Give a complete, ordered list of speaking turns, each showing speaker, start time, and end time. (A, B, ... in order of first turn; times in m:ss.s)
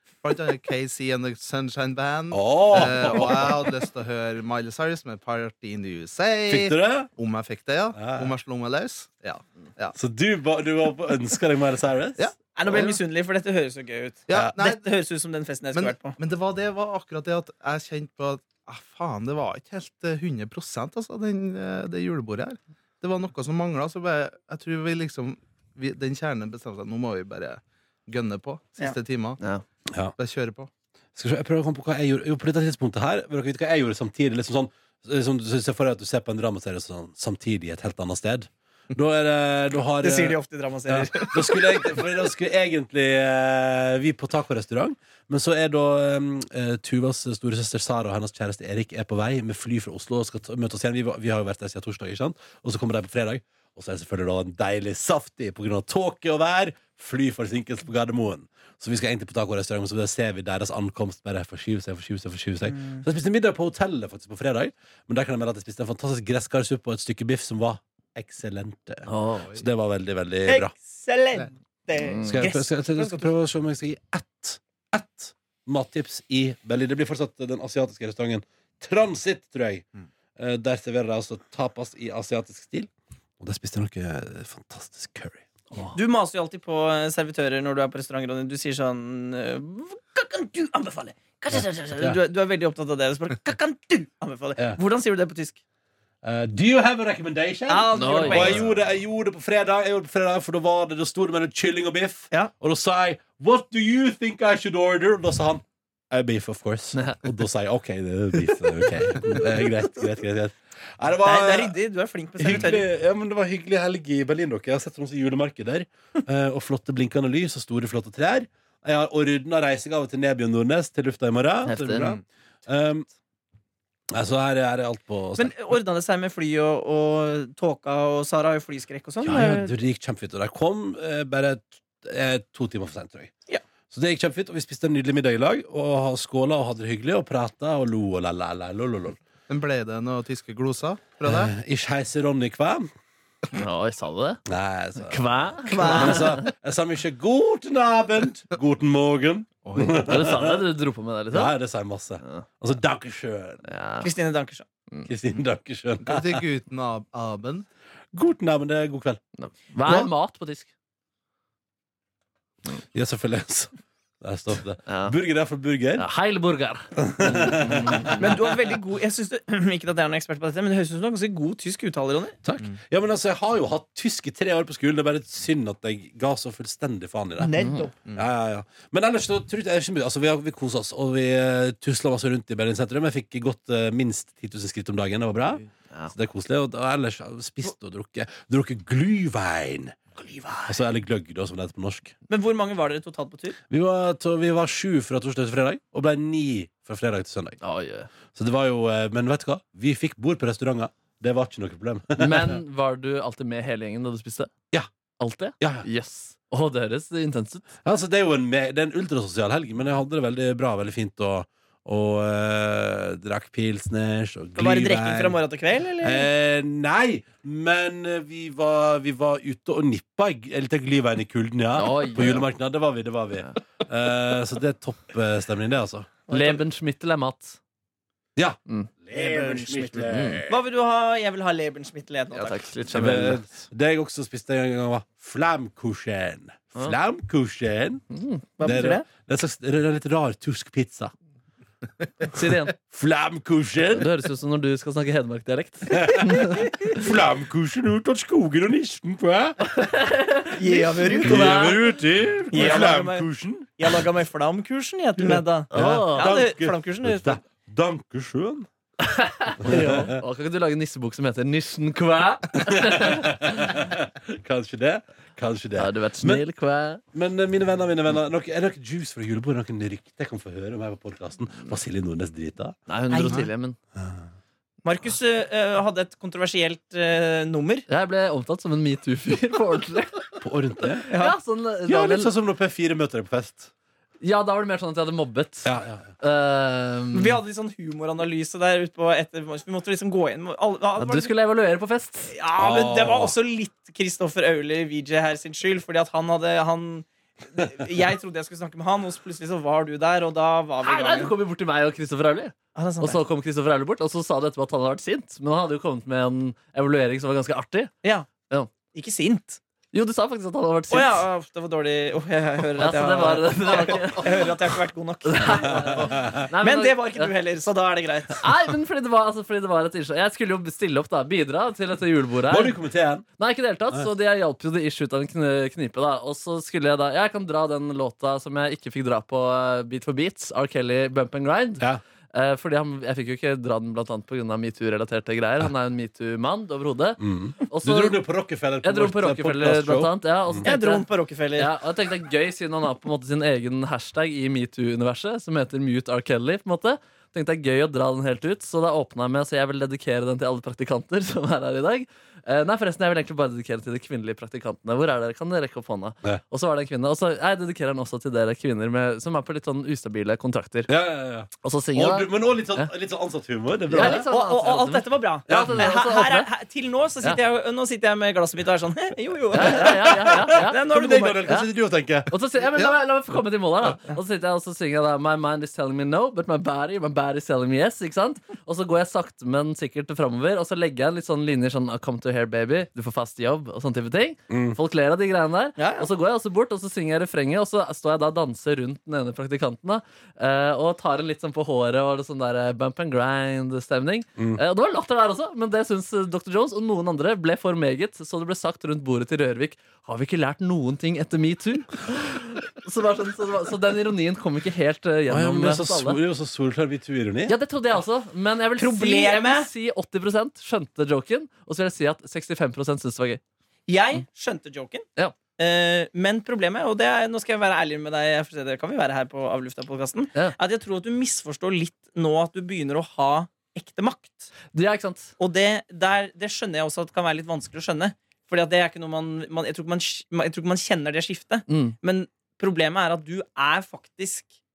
0:00.2-0:10.0 A
0:02.3-0:03.7 B
0:06.5-0:07.1 B
0:08.0-0:08.3 B
0:10.0-0:12.2 B
0:12.2-0:13.0 A
0:12.6-0:16.2 C
0:14.3-0:14.8 A
0:15.7-0:29.4 A
0:30.2-0:30.7 A
0:31.2-0:40.4 B
0:40.0-0:42.2 C
0:40.9-1:10.7 B
1:02.7-1:03.0 C
1:09.1-1:09.6 D
1:10.5-1:13.3 C
1:12.0-1:12.4 D
1:12.3-1:26.0 B
1:26.0-1:35.6 C
1:31.5-1:32.2 B
1:36.2-1:51.8 B
1:37.7-1:38.7 C
1:38.0-1:38.6 D
1:46.9-1:47.2 D
1:51.2-1:52.9 C
1:52.4-2:03.1 B
2:01.7-2:02.1 D
2:04.1-2:05.5 B
2:05.4-2:09.7 C
2:09.2-2:13.3 B
2:13.9-2:19.2 B
2:19.5-2:21.5 A
2:21.2-2:22.9 B
2:23.5-2:24.4 D
2:24.5-2:30.6 B
2:25.0-2:26.5 D
2:25.7-2:26.4 C
2:29.6-2:30.4 A
2:30.0-2:31.5 D
2:31.3-2:33.6 B
2:33.6-2:34.1 D
2:34.0-2:34.7 C
2:35.1-2:36.4 B
2:36.0-2:37.7 A
2:38.1-2:39.2 B
2:39.4-2:40.7 D
2:39.8-2:40.1 A
2:42.9-2:46.1 B
2:44.9-2:45.1 D
2:46.0-2:48.3 D
2:47.0-2:48.4 B
2:48.2-2:52.4 C
2:52.4-2:57.6 B
2:57.4-2:58.0 C
2:57.5-2:57.9 D
2:58.1-3:10.0 B
3:10.2-3:10.8 C
3:10.7-3:12.1 B
3:12.3-3:13.6 C
3:13.7-3:17.6 B
3:17.6-3:18.1 D
3:18.3-3:22.5 B
3:22.2-3:24.5 D
3:25.2-3:27.7 D
3:25.6-3:25.9 B
3:27.8-3:35.4 B
3:34.6-3:36.3 C
3:36.0-3:46.1 B
3:41.7-3:42.5 D
3:46.3-3:46.6 C
3:46.3-3:47.6 D
3:48.4-3:50.6 B
3:49.1-3:52.7 C
3:50.0-3:50.4 D
3:52.3-3:53.6 D
3:52.9-3:58.0 B
3:58.1-3:58.4 D
3:58.6-3:59.1 C
3:58.6-4:01.1 B
4:02.3-4:02.7 D
4:02.8-4:04.1 B
4:03.9-4:06.6 D
4:05.9-4:09.8 B
4:09.7-4:11.8 D
4:10.6-4:11.8 C
4:11.2-4:13.9 B
4:12.5-4:13.3 C
4:13.8-4:17.4 C
4:15.2-4:18.7 B
4:15.7-4:16.4 D
4:19.0-4:23.3 D
4:19.6-4:20.2 B
4:22.6-4:26.4 B
4:25.8-4:27.0 D
4:27.1-4:32.8 B
4:32.9-4:33.8 D
4:33.1-4:33.5 C
4:34.8-4:37.9 C
4:37.9-4:40.4 D
4:40.4-4:41.1 B
4:40.9-4:42.3 D
4:41.1-4:41.4 C
4:41.9-4:43.7 B
4:44.2-4:45.7 D
4:45.6-4:46.1 B
4:46.2-4:47.4 D
4:47.1-4:51.3 C
4:51.0-4:52.3 D
4:52.3-5:01.3 C
4:52.6-4:53.3 B
5:00.8-5:07.9 D
5:02.8-5:03.2 C
5:08.0-5:08.3 C
5:08.9-5:09.6 C
5:09.9-5:11.2 D
5:10.9-5:18.4 C
5:12.8-5:14.5 D
5:15.2-5:17.3 D
5:16.0-5:16.4 B
5:18.4-5:22.8 D
5:22.5-5:23.3 B
5:23.4-5:38.2 D
5:37.2-5:40.7 B
5:38.8-6:00.9 D
5:40.6-5:41.7 C
6:00.9-6:04.3 B
6:01.6-6:02.9 D
6:03.9-6:06.5 D
6:04.0-6:11.6 C
6:05.5-6:05.9 B
6:09.5-6:10.8 D
6:09.6-6:12.3 B
6:12.3-6:46.2 D
6:24.5-6:24.8 B
6:25.8-6:26.1 C
6:34.4-6:34.6 B
6:45.3-6:47.5 B
6:47.5-6:53.4 D
6:48.8-6:49.7 C
6:53.9-6:55.1 C
6:55.6-7:04.5 C
7:04.7-7:05.3 D
7:05.4-7:14.5 C
7:11.7-7:12.0 D